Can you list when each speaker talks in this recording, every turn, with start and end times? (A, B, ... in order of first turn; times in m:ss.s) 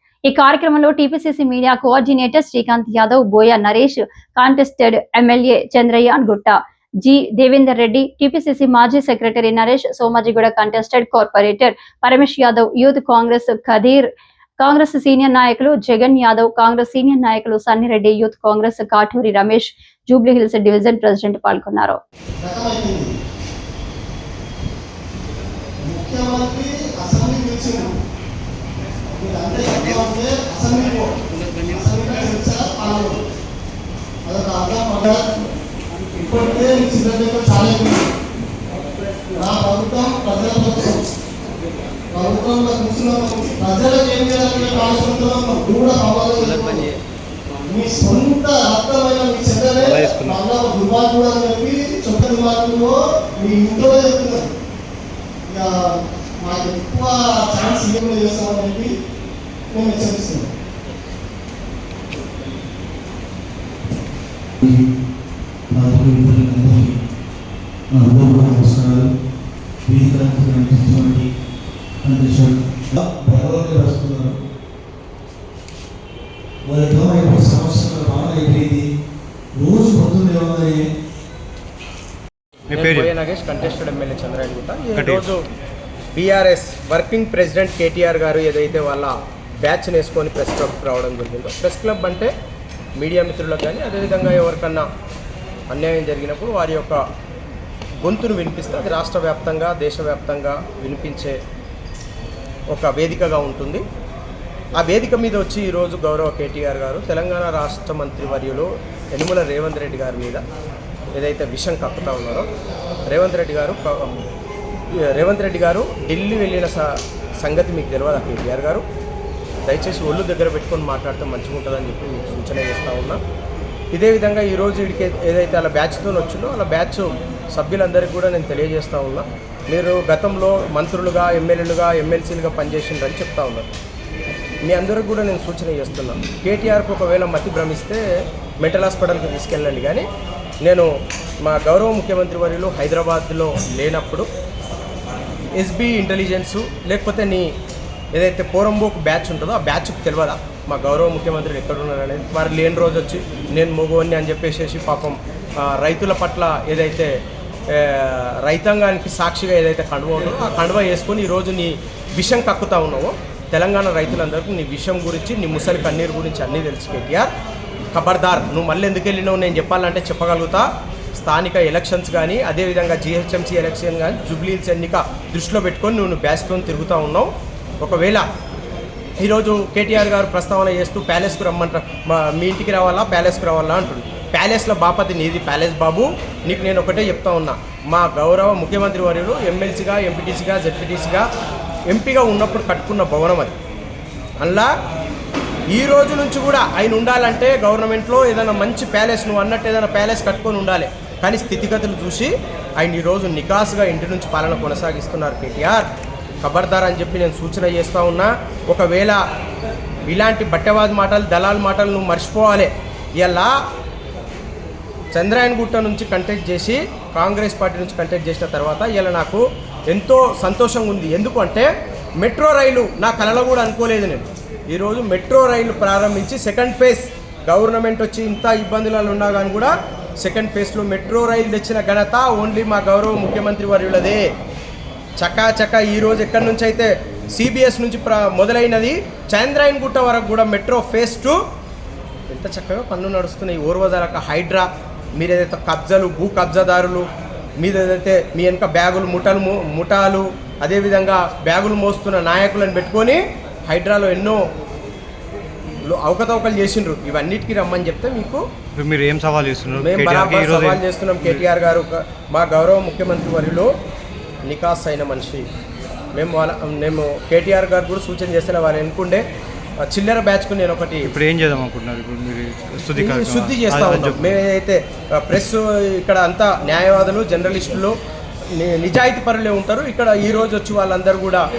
0:00.3-0:14.1 A
0:14.6-0:22.0 A
0:22.4-0:23.1 B
0:25.8-0:27.9 B
0:29.1-0:31.1 B
0:31.6-0:33.2 B
0:34.2-0:35.2 B
0:36.2-0:38.1 B
0:39.3-0:41.0 B
0:42.1-0:46.8 B
0:47.6-0:54.5 B
0:49.8-0:50.4 C
0:55.5-0:58.9 B
0:59.7-1:00.5 B
1:05.7-1:07.0 D
1:07.9-1:09.1 D
1:09.8-1:11.3 D
1:12.0-1:14.4 D
1:16.6-1:18.9 D
1:19.6-1:20.9 D
1:22.7-1:23.1 C
1:22.7-1:25.4 E
1:24.9-1:25.3 C
1:26.2-1:29.1 E
1:29.6-1:32.3 E
1:33.0-1:34.8 E
1:35.7-1:37.0 E
1:38.0-1:41.4 E
1:42.7-1:43.8 E
1:44.8-1:50.4 E
1:51.1-1:52.5 E
1:53.1-1:54.2 E
1:55.0-1:58.8 E
1:59.7-2:03.2 E
2:03.9-2:13.7 E
2:14.6-2:18.0 E
2:18.6-2:20.1 E
2:20.6-2:20.9 E
2:21.4-2:24.3 E
2:25.6-2:27.5 E
2:28.1-2:37.1 E
2:37.7-2:47.3 E
2:47.9-2:50.6 E
2:51.2-2:57.3 E
2:57.8-2:58.2 E
2:59.2-3:11.2 E
3:11.9-3:13.5 E
3:14.4-3:14.7 E
3:15.7-3:25.9 E
3:26.4-3:29.2 E
3:30.1-3:33.5 E
3:35.1-3:41.7 E
3:42.2-3:54.2 E
3:55.2-4:01.4 E
4:02.3-4:07.1 E
4:07.6-4:14.4 E
4:15.8-4:18.4 E
4:18.8-4:21.4 C
4:19.8-4:23.7 E
4:24.5-4:25.4 E
4:26.1-4:29.2 E
4:29.8-4:31.1 E
4:31.0-4:34.4 C
4:33.0-4:37.9 E
4:38.6-4:41.4 E